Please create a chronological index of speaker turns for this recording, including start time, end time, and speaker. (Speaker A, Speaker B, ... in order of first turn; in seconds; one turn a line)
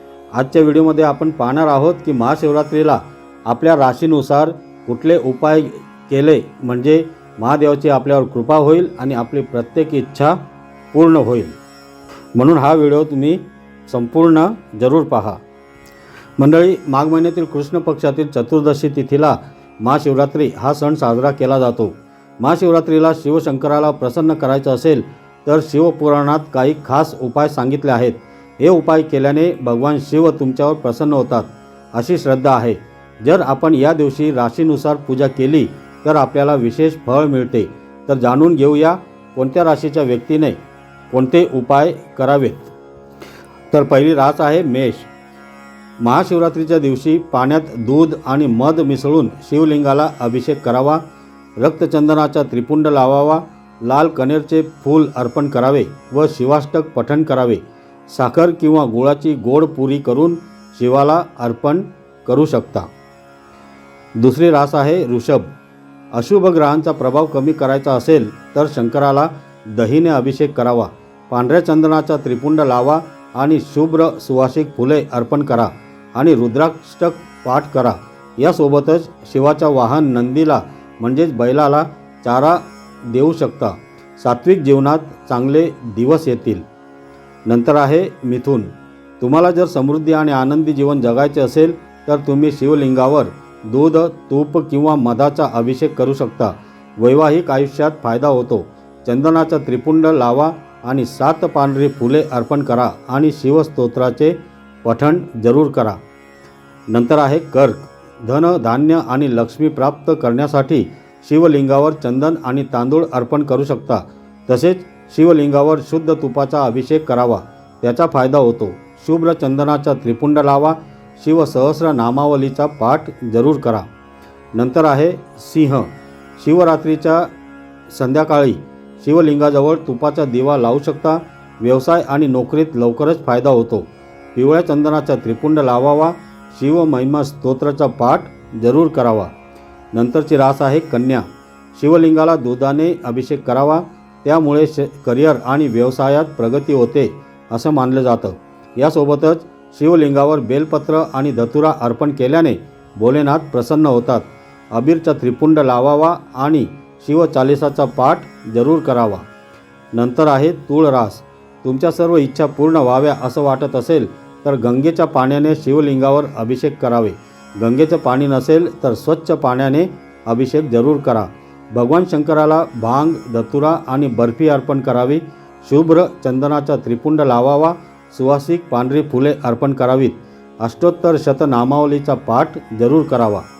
Speaker A: 0.3-10.4
Speaker A: 10.9-11.6
Speaker A: 12.3-15.4
Speaker A: 16.4-40.6
Speaker A: 41.1-42.7
Speaker A: 43.7-45.1
Speaker A: 46.0-51.0
Speaker A: 51.6-62.9
Speaker A: 64.2-65.5
Speaker A: 66.1-86.6
Speaker A: 87.5-106.0
Speaker A: 106.9-123.8
Speaker A: 124.5-127.3
Speaker A: 127.9-139.3
Speaker A: 139.9-159.2
Speaker A: 159.9-183.4